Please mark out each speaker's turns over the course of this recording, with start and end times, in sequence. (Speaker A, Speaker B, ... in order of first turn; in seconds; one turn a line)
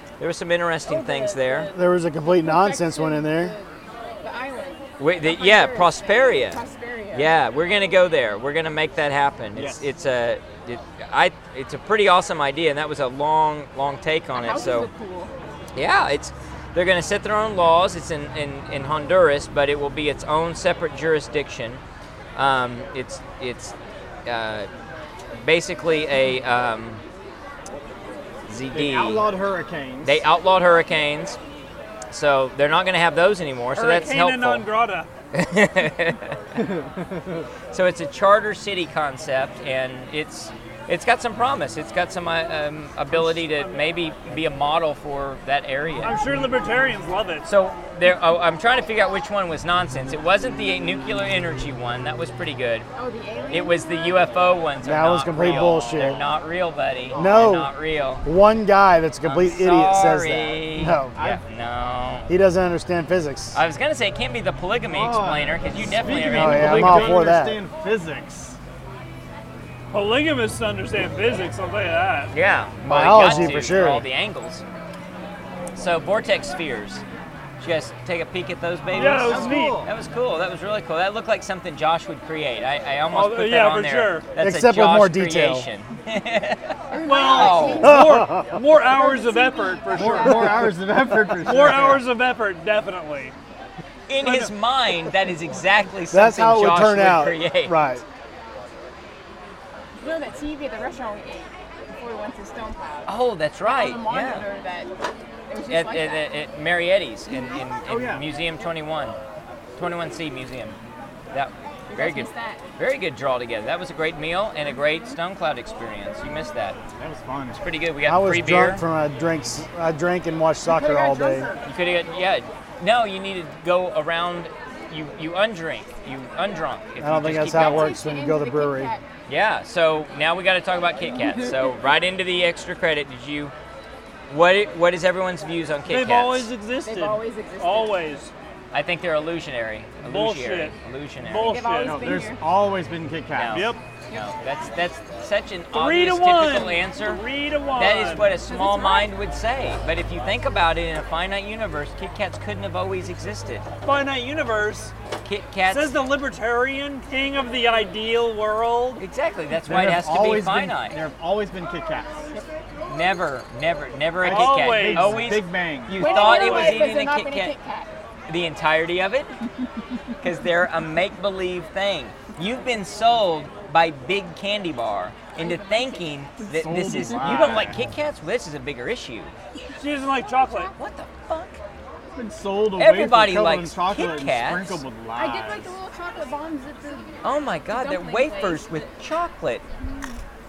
Speaker A: 0.2-1.7
Speaker B: 0.8-7.4
Speaker C: 1.7-3.5
Speaker A: 5.0-14.9
Speaker D: 9.5-9.9
Speaker B: 14.3-15.3
Speaker A: 15.7-21.8
Speaker A: 22.3-23.7
Speaker A: 24.2-24.7
Speaker A: 25.3-27.0
Speaker A: 28.5-29.3
Speaker D: 28.7-30.2
Speaker A: 30.0-31.4
Speaker A: 32.1-34.6
Speaker E: 33.7-35.1
Speaker A: 35.3-36.4
Speaker D: 36.6-37.5
Speaker A: 37.7-46.1
Speaker E: 43.1-43.7
Speaker E: 46.0-47.5
Speaker A: 47.4-52.9
Speaker B: 52.9-54.4
Speaker A: 53.5-58.2
Speaker C: 54.8-56.2
Speaker D: 57.1-57.6
Speaker C: 57.1-61.2
Speaker A: 59.2-62.3
Speaker D: 61.1-61.4
Speaker C: 62.3-63.6
Speaker A: 63.5-67.2
Speaker D: 64.9-68.6
Speaker C: 66.3-67.6
Speaker E: 69.9-72.3
Speaker A: 72.3-74.6
Speaker C: 72.8-74.0
Speaker A: 75.8-77.0
Speaker A: 77.6-86.7
Speaker D: 78.9-79.9
Speaker E: 78.9-79.8
Speaker E: 83.1-84.3
Speaker C: 84.4-85.7
Speaker B: 86.9-90.8
Speaker E: 87.0-90.7
Speaker A: 87.2-87.9
Speaker C: 87.8-88.6
Speaker D: 89.9-92.0
Speaker E: 91.4-93.3
Speaker A: 94.1-97.8
Speaker E: 94.2-94.5
Speaker C: 96.1-98.0
Speaker B: 100.0-104.9
Speaker A: 103.0-104.5
Speaker B: 105.5-106.3
Speaker A: 105.7-109.2
Speaker D: 107.8-108.3
Speaker A: 109.8-110.8
Speaker A: 111.3-116.8
Speaker B: 111.9-112.6
Speaker D: 117.0-117.6
Speaker A: 117.5-118.8
Speaker C: 118.0-121.5
Speaker D: 120.7-121.6
Speaker A: 121.6-128.0
Speaker C: 127.0-128.9
Speaker B: 127.4-129.0
Speaker A: 129.3-133.5
Speaker B: 131.1-131.5
Speaker A: 134.3-136.5
Speaker E: 135.8-138.3
Speaker B: 136.8-138.1
Speaker A: 138.7-141.6
Speaker E: 140.0-142.1
Speaker B: 141.3-142.5
Speaker D: 141.8-143.7
Speaker A: 143.3-153.6
Speaker E: 143.5-143.8
Speaker E: 145.7-148.3
Speaker B: 148.2-149.1
Speaker E: 153.8-154.9
Speaker A: 155.2-155.9
Speaker E: 155.7-159.0
Speaker A: 159.0-161.0
Speaker D: 159.6-162.3
Speaker A: 162.9-167.6
Speaker D: 164.2-166.1
Speaker E: 164.2-165.4
Speaker B: 165.9-167.9
Speaker E: 166.0-166.9
Speaker A: 168.3-169.3
Speaker A: 170.2-179.3
Speaker B: 175.3-177.6
Speaker D: 176.5-177.8
Speaker E: 179.8-180.7
Speaker A: 180.8-181.6
Speaker D: 182.1-185.7
Speaker A: 182.8-184.8
Speaker B: 185.1-188.8
Speaker A: 187.2-189.6